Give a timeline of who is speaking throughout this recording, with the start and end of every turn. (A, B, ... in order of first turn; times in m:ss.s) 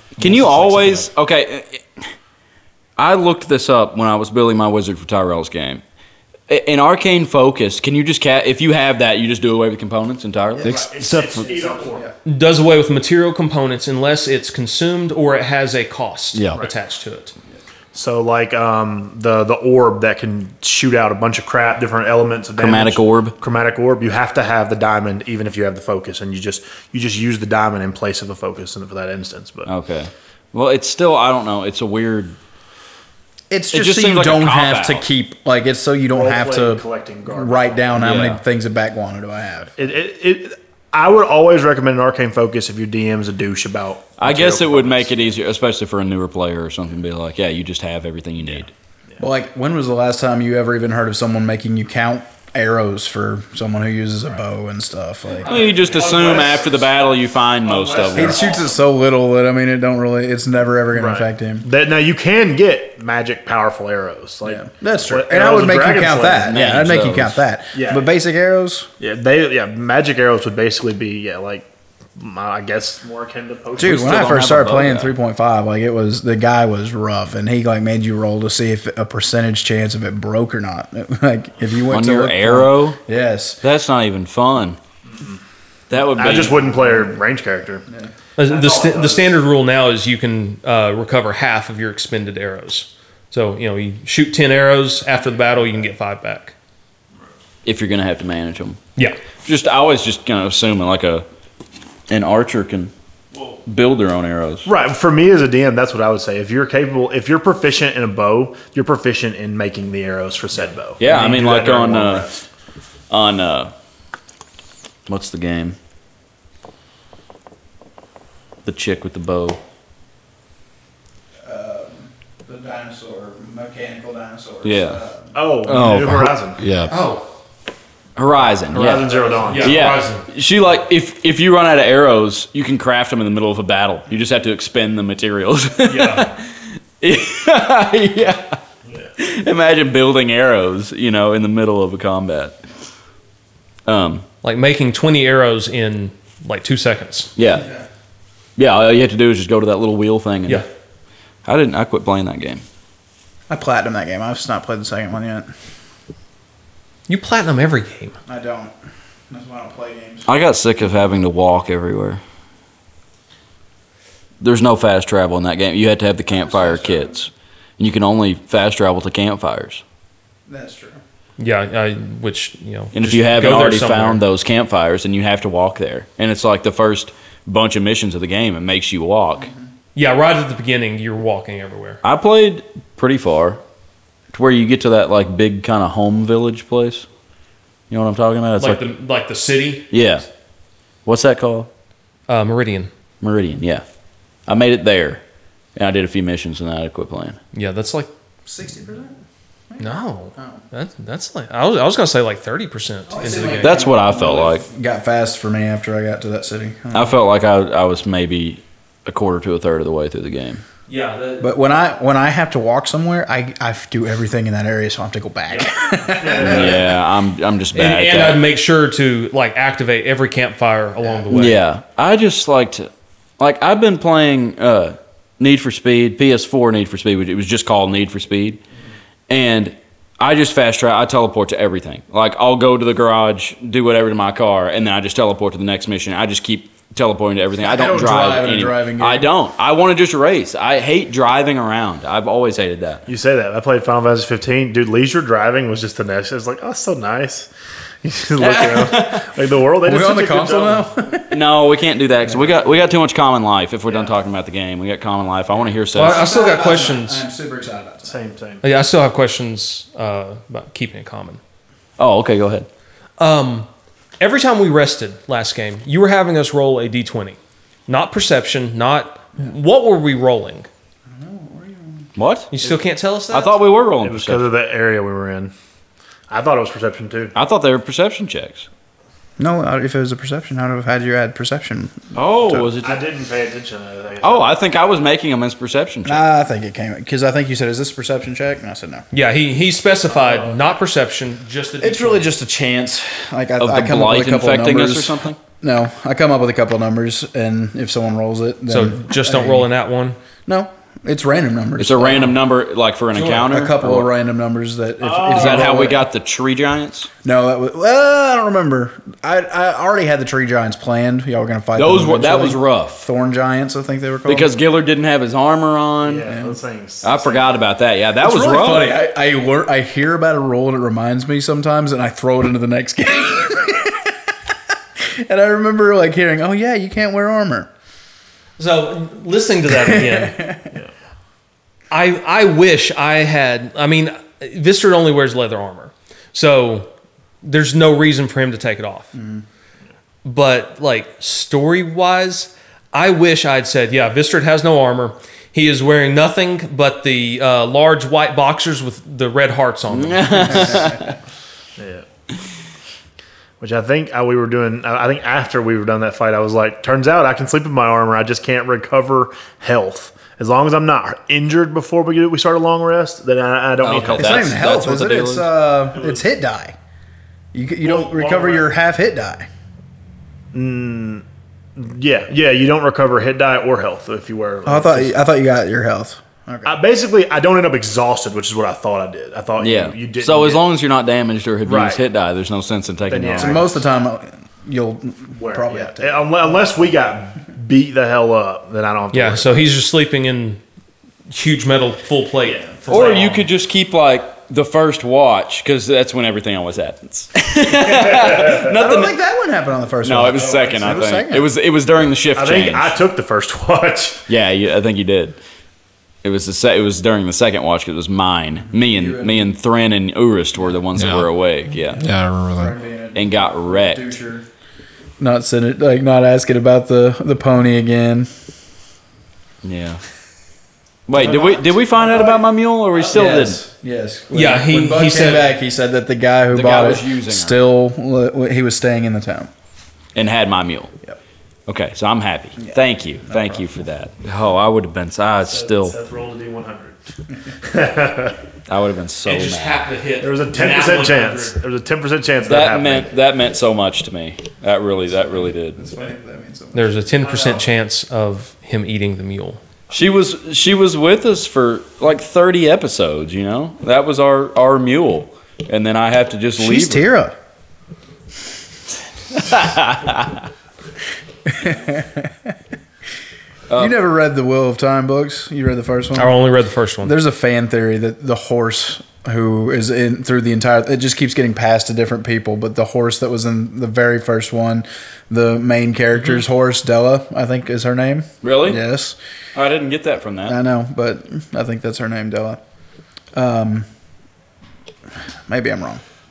0:00.2-0:01.8 A
0:03.0-0:05.8 A
0:06.5-0:10.8 A
0:10.6-0:11.5 B
0:10.6-0:12.0 C
0:11.4-0:12.1 D
0:12.2-0:17.3 E
0:17.9-0:29.7 C
0:22.6-0:23.4 A
0:29.6-0:32.4 A
0:33.5-0:39.8 D
0:33.7-0:35.0 A
0:36.1-0:38.2 C
0:38.0-0:38.4 A
0:39.8-0:45.2 C
0:44.2-0:48.7 A
0:49.2-0:55.6 D
0:55.4-0:58.4 A
0:55.4-0:57.0 C
0:57.6-0:58.8 C
0:58.1-1:01.6 D
1:00.9-1:06.6 C
1:04.4-1:08.9 D
1:06.4-1:07.4 A
1:07.7-1:08.1 C
1:09.0-1:11.6 C
1:12.2-1:14.3 C
1:13.8-1:15.2 A
1:13.8-1:23.6 D
1:21.9-1:23.0 A
1:23.6-1:24.8 A
1:25.1-1:25.4 C
1:25.9-1:26.6 A
1:26.0-1:27.8 C
1:28.4-1:36.5 E
1:28.4-1:29.3 C
1:37.6-1:38.8 A
1:39.4-1:41.2 A
1:42.1-1:42.9 A
1:43.6-1:44.7 A
1:44.6-1:52.4 C
1:51.0-1:52.3 A
1:53.1-1:53.7 A
1:55.1-1:55.8 A
1:58.6-1:59.6 A
2:01.4-2:05.3 D
2:04.6-2:05.0 A
2:05.3-2:06.6 C
2:05.6-2:06.9 A
2:06.9-2:07.2 E
2:08.2-2:18.6 A
2:08.7-2:09.9 C
2:09.5-2:10.2 E
2:15.9-2:16.3 E
2:19.2-2:22.6 A
2:23.8-2:24.2 A
2:24.4-2:27.3 E
2:27.4-2:27.7 A
2:27.5-2:27.8 D
2:28.6-2:30.6 A
2:31.4-2:32.6 A
2:33.5-2:35.5 D
2:37.1-2:38.1 E
2:38.3-2:38.7 D
2:39.3-2:40.2 D
2:40.2-2:42.2 A
2:44.4-2:49.8 A
2:46.3-2:47.2 D
2:50.5-2:51.0 D
2:51.4-2:54.2 E
2:52.9-2:59.5 A
2:59.4-2:59.7 D
2:59.9-3:02.0 E
3:02.0-3:03.6 A
3:04.3-3:07.0 A
3:07.9-3:08.8 A
3:08.6-3:09.9 E
3:09.9-3:10.2 A
3:11.0-3:11.7 A
3:12.3-3:12.9 E
3:13.2-3:13.8 A
3:14.4-3:15.2 A
3:15.8-3:17.4 A
3:17.5-3:18.1 E
3:18.4-3:19.2 D
3:19.7-3:20.6 D
3:19.8-3:23.8 E
3:23.1-3:27.1 D
3:23.6-3:24.7 A
3:26.9-3:30.6 A
3:30.9-3:31.5 E
3:31.4-3:36.8 D
3:36.2-3:36.8 C
3:36.3-3:38.5 A
3:37.7-3:41.6 E
3:41.3-3:48.6 A
3:49.3-4:03.0 A
3:57.6-3:59.3 D
4:03.1-4:07.5 C
4:08.0-4:10.9 C
4:08.4-4:09.3 A
4:09.8-4:11.4 D
4:11.3-4:16.3 A
4:15.9-4:17.2 E
4:16.0-4:18.1 D
4:18.0-4:18.6 C
4:18.6-4:21.4 E
4:22.0-4:22.7 A
4:23.2-4:23.7 E
4:24.2-4:30.7 E
4:31.1-4:32.1 D
4:32.2-4:32.5 A
4:32.5-4:33.6 E
4:33.3-4:34.5 A
4:34.0-4:35.5 C
4:36.3-4:37.3 C
4:37.3-4:38.7 A
4:39.4-4:42.7 D
4:42.1-4:43.0 A
4:42.8-4:44.5 C
4:44.2-4:46.2 A
4:46.0-4:49.0 D
4:49.1-4:52.3 E
4:50.1-4:50.6 C
4:51.8-4:59.7 D
4:53.6-4:55.4 A
4:58.7-5:00.2 E
5:00.4-5:02.4 D
5:01.8-5:04.1 A
5:03.1-5:03.4 E
5:03.3-5:06.0 D
5:05.0-5:05.9 C
5:05.3-5:07.1 A
5:07.2-5:14.5 D
5:11.7-5:13.1 A
5:14.2-5:16.3 A
5:16.0-5:17.6 C
5:16.3-5:16.6 D
5:17.0-5:19.0 A
5:18.2-5:24.1 D
5:25.0-5:27.7 D
5:28.6-5:30.4 E
5:29.7-5:30.7 D
5:31.9-5:36.9 E
5:37.4-5:39.1 E
5:39.1-5:39.4 D
5:40.2-5:50.8 E
5:49.9-5:51.1 A
5:51.8-5:52.0 C
5:53.6-6:04.6 C
6:03.8-6:05.5 A
6:04.1-6:06.7 D
6:05.9-6:06.3 C
6:07.5-6:09.5 D
6:07.8-6:08.7 C
6:10.5-6:11.2 C
6:11.8-6:15.2 C
6:14.6-6:16.8 D
6:16.6-6:20.6 C
6:19.6-6:23.6 A
6:21.6-6:22.0 C
6:23.1-6:23.8 C
6:23.4-6:26.7 D
6:25.4-6:29.6 C
6:29.1-6:30.6 E
6:31.3-6:33.4 E
6:32.5-6:33.2 C
6:32.9-6:39.2 A
6:37.7-6:38.6 C
6:38.6-6:41.5 D
6:40.0-6:43.0 A
6:40.3-6:41.0 C
6:42.3-6:44.2 C
6:44.3-6:45.4 A
6:46.2-6:52.1 A
6:48.6-6:49.5 D
6:51.0-6:51.3 B
6:51.9-6:52.7 B
6:52.5-6:54.4 D
6:53.1-6:54.1 A
6:55.2-6:58.3 D
6:59.6-7:00.0 A
7:01.1-7:03.6 A
7:01.2-7:02.4 D
7:03.0-7:09.5 D
7:04.3-7:05.5 E
7:06.5-7:07.6 A
7:10.1-7:10.9 A
7:11.7-7:16.0 A
7:12.6-7:13.6 D
7:15.4-7:17.0 C
7:17.6-7:18.4 C
7:18.7-7:19.9 A
7:19.2-7:21.6 E
7:20.2-7:23.1 C
7:22.4-7:25.8 A
7:25.6-7:27.2 D
7:26.7-7:29.6 E
7:27.2-7:27.6 C
7:29.9-7:37.1 A
7:36.6-7:37.3 D
7:39.3-7:40.4 A
7:41.4-7:42.5 D
7:43.7-7:44.0 A
7:43.8-7:46.4 D
7:46.1-7:47.1 E
7:47.0-7:59.2 D
7:58.4-7:58.8 A
7:59.5-8:00.6 A
8:00.4-8:02.6 D
8:03.3-8:03.9 D
8:05.5-8:06.0 D